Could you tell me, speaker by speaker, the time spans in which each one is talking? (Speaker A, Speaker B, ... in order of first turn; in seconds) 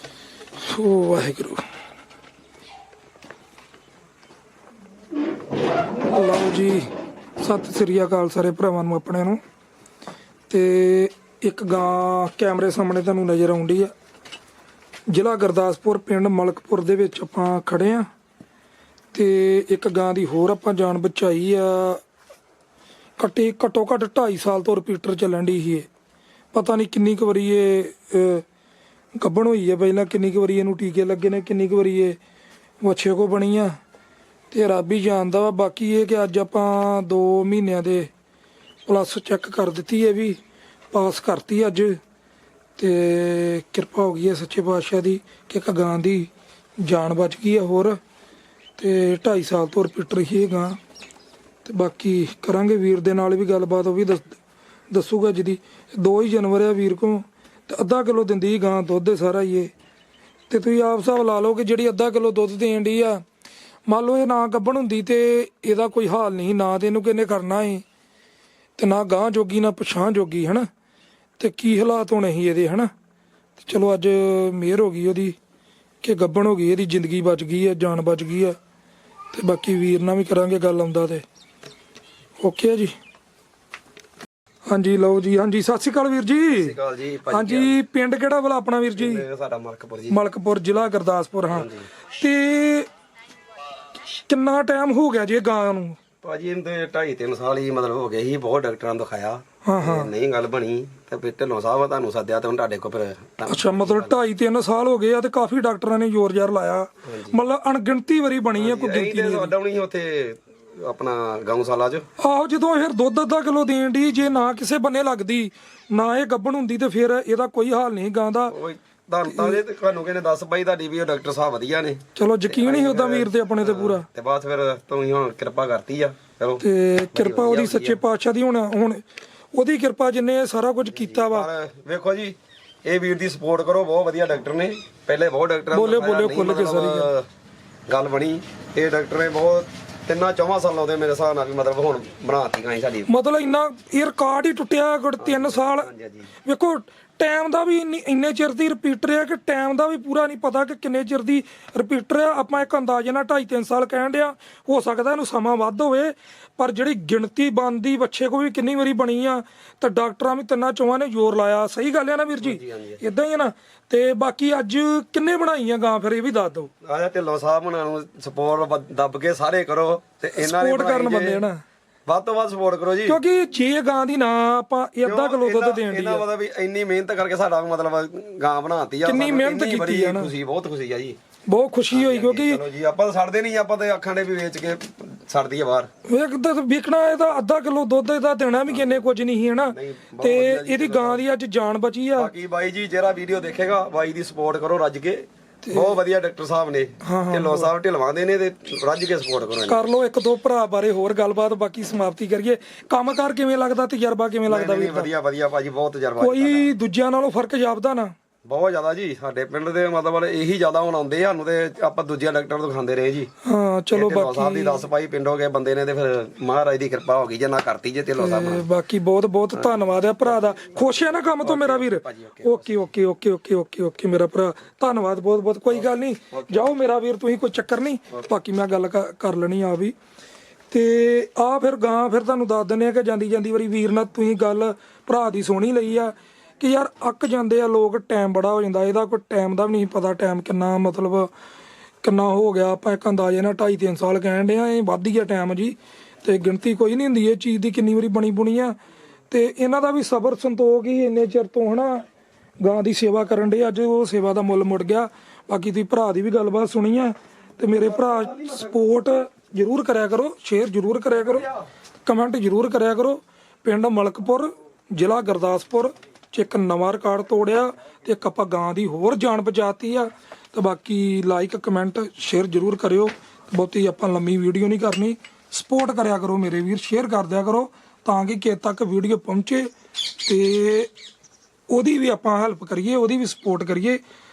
Speaker A: 0.6-1.6, 6.1-6.8, 7.4-9.4, 10.5-13.9, 15.1-18.1, 19.1-22.0, 23.2-25.9, 26.5-28.4, 29.2-32.2, 32.8-33.7, 34.5-38.1, 38.9-40.4, 40.9-42.0, 42.8-46.3, 46.8-48.0, 48.8-50.8, 51.6-54.4, 54.9-59.7, 60.5-63.2, 63.9-67.8, 68.8-70.6, 71.4-72.9, 73.6-75.4, 76.0-78.6, 79.3-81.2, 82.4-82.9, 84.7-86.8, 87.3-89.2, 90.1-92.9, 94.1-96.0, 99.6-100.1, 103.5-109.5, 112.2-118.5, 119.2-119.6, 122.1-124.1, 126.6-129.0, 129.5-131.5, 135.7-137.1, 143.1-145.9, 146.4-166.7, 170.3-171.6, 173.0-176.2, 179.0-180.3, 181.5-182.6, 186.1-192.3, 195.6-196.0, 197.0-197.7, 199.7-205.1, 206.2-208.1, 213.4-214.8, 218.2-229.9, 230.7-241.3, 242.0-248.8, 249.3-252.0, 252.6-261.5, 262.0-279.7, 280.2-280.9, 281.7-284.0
Speaker B: 86.5-87.8, 89.0-90.2, 91.5-91.9, 96.2-104.2, 107.1-107.4, 108.6-112.1, 118.5-128.0, 130.9-137.2, 137.9-143.1, 145.2-146.3, 162.4-163.0, 166.8-171.5, 172.1-173.2, 175.1-181.2, 181.9-185.9, 188.7-189.1, 189.7-191.2, 192.2-199.8, 204.5-206.7, 208.5-213.3, 213.9-218.7, 219.6-222.9, 226.3-226.7, 257.9-258.6